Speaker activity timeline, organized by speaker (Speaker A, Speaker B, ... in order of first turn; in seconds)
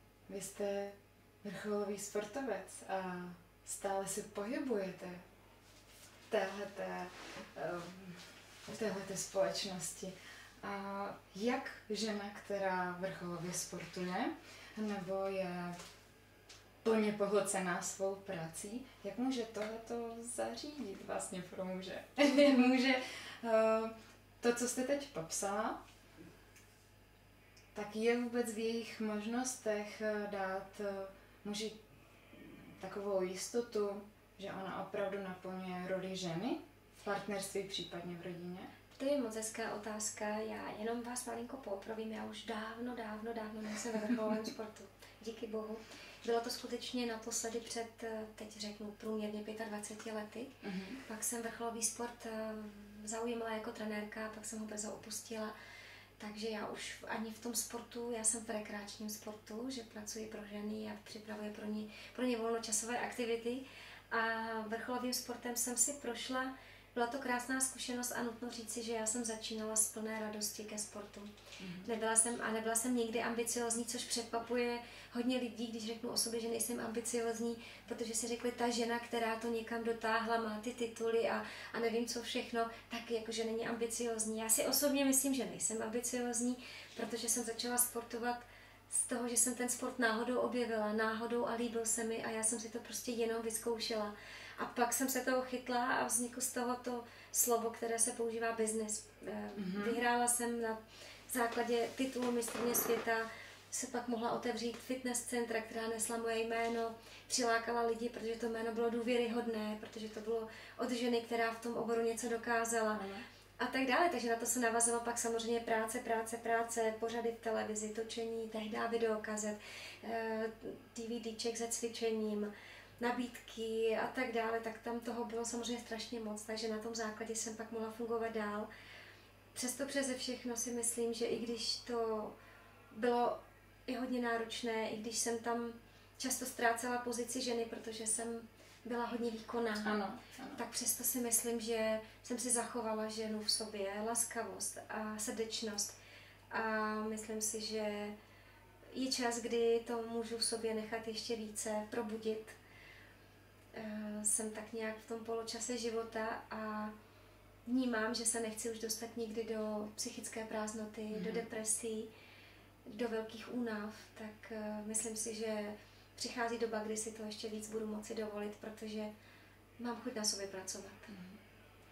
Speaker A: 0.3-5.2, 6.3-15.8, 16.8-25.8, 27.7-31.8, 32.4-38.7, 44.0-44.4, 50.6-51.0, 71.6-71.9, 99.5-100.0, 113.0-113.2, 139.8-140.6, 161.1-161.4, 171.1-171.4
Speaker B: 38.9-55.5, 56.2-71.3, 71.8-100.8, 101.3-113.1, 113.6-128.7, 129.5-132.4, 132.9-139.9, 140.6-145.9, 146.5-148.2, 148.9-152.6, 153.7-156.9, 157.7-162.1, 162.9-169.1, 169.8-171.1